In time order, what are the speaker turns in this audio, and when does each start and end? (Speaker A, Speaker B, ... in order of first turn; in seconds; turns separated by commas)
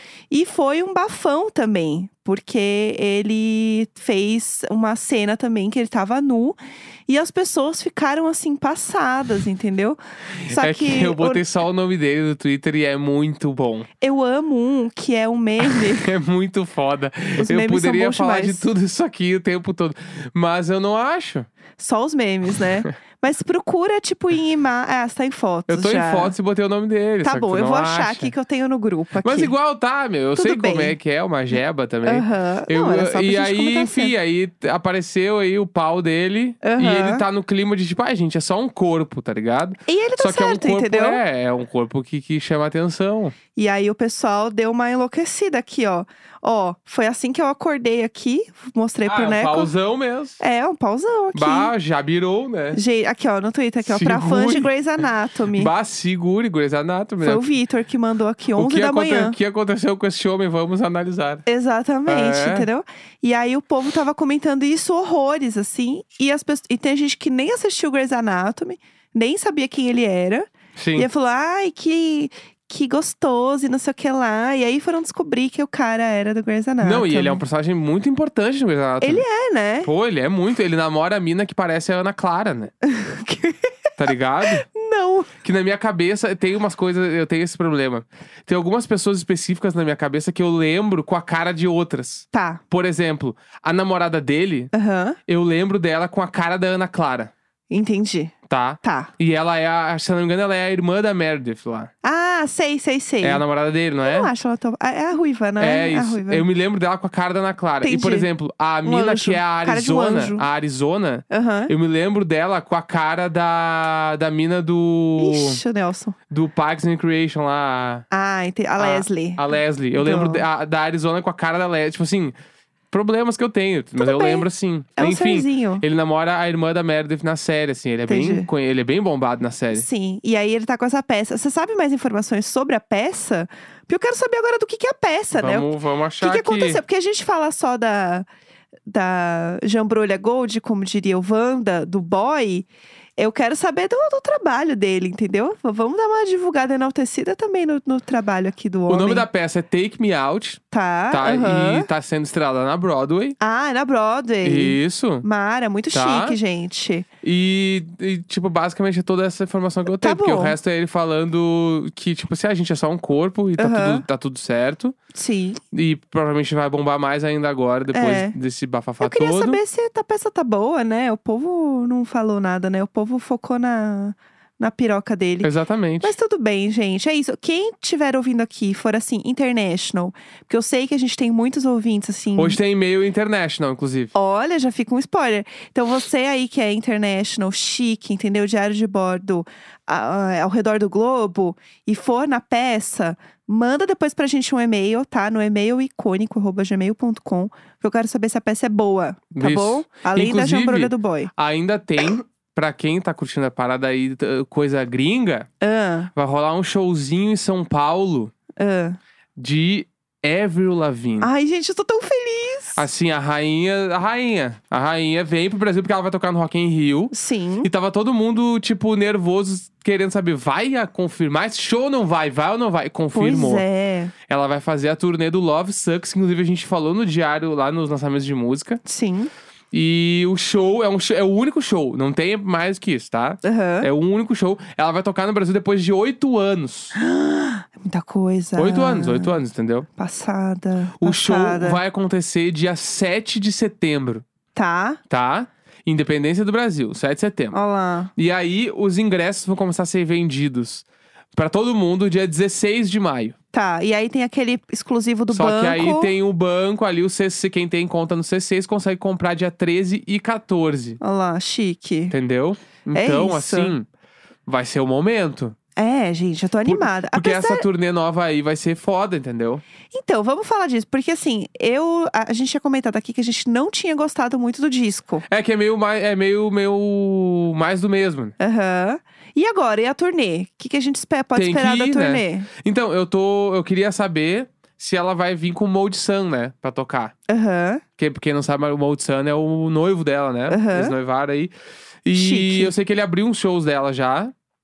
Speaker A: 0.3-6.6, Speaker A: 7.1-11.4, Speaker B: 10.5-13.9, Speaker A: 14.0-16.1, Speaker B: 15.6-21.5, Speaker A: 17.4-18.7, Speaker A: 21.8-26.3, Speaker B: 25.7-28.3, Speaker A: 27.2-29.5, Speaker B: 29.2-43.3, Speaker A: 30.4-30.9, Speaker A: 32.0-34.1, Speaker A: 36.6-37.2, Speaker A: 39.9-41.2, Speaker A: 43.5-49.7, Speaker B: 49.0-50.4, Speaker A: 50.4-51.7, Speaker B: 51.3-52.8, Speaker A: 52.7-55.7, Speaker B: 53.8-54.7, Speaker B: 55.5-57.4, Speaker A: 57.2-59.4, Speaker B: 58.5-61.4, Speaker A: 61.5-77.4, Speaker B: 62.1-62.7, Speaker B: 70.8-71.1, Speaker B: 76.8-79.2, Speaker A: 79.0-79.9, Speaker B: 79.8-82.7, Speaker A: 82.8-83.7, Speaker B: 84.0-84.7, Speaker A: 84.7-85.3, Speaker B: 85.4-94.7, Speaker A: 92.3-92.6, Speaker A: 94.7-95.2, Speaker B: 95.3-97.3, Speaker A: 97.7-99.1, Speaker B: 98.5-101.9, Speaker A: 102.0-103.4, Speaker B: 103.2-104.3, Speaker A: 104.0-106.4, Speaker B: 105.6-115.6, Speaker A: 107.8-108.3, Speaker A: 108.8-110.5, Speaker A: 111.3-111.7, Speaker A: 115.2-116.2, Speaker B: 116.3-118.0, Speaker A: 118.1-119.4, Speaker B: 118.8-122.3, Speaker A: 119.9-120.4, Speaker B: 122.9-129.8, Speaker A: 124.0-125.8, Speaker A: 128.1-128.5, Speaker A: 129.7-138.3, Speaker B: 135.3-136.8, Speaker A: 138.9-149.2, Speaker B: 148.9-153.4, Speaker A: 150.7-151.9, Speaker A: 153.4-157.1, Speaker B: 154.4-155.2, Speaker B: 155.9-156.4, Speaker B: 157.2-165.0, Speaker A: 159.9-160.6, Speaker A: 163.6-164.0, Speaker A: 165.1-165.6, Speaker B: 165.7-169.6, Speaker A: 167.9-168.3, Speaker A: 169.0-175.5, Speaker B: 175.4-176.1, Speaker A: 176.0-182.6, Speaker B: 182.3-184.1, Speaker A: 184.1-201.3, Speaker B: 199.3-205.5, Speaker A: 205.6-206.1, Speaker B: 206.1-208.3, Speaker A: 208.6-209.0, Speaker B: 209.4-211.3, Speaker A: 211.2-212.8, Speaker B: 212.7-223.6, Speaker A: 217.1-217.7, Speaker A: 223.1-224.1, Speaker B: 224.3-228.8, Speaker A: 228.8-229.3, Speaker B: 229.7-236.9, Speaker A: 233.4-233.9, Speaker A: 236.9-239.4, Speaker B: 238.6-239.9, Speaker A: 239.9-241.8, Speaker B: 241.0-244.2, Speaker A: 244.5-245.0, Speaker B: 245.1-247.6, Speaker A: 247.5-248.1, Speaker B: 248.2-253.3, Speaker A: 253.5-256.1, Speaker B: 255.3-261.0, Speaker A: 261.0-262.1, Speaker B: 262.1-263.9, Speaker A: 262.9-263.7, Speaker B: 264.5-265.6, Speaker A: 265.8-267.6, Speaker B: 266.6-269.6, Speaker A: 269.9-275.2, Speaker B: 275.3-278.3, Speaker A: 278.4-282.5, Speaker B: 281.3-287.1, Speaker A: 287.3-287.8, Speaker B: 288.0-291.5, Speaker A: 290.5-290.9, Speaker B: 292.0-294.3, Speaker A: 292.1-292.7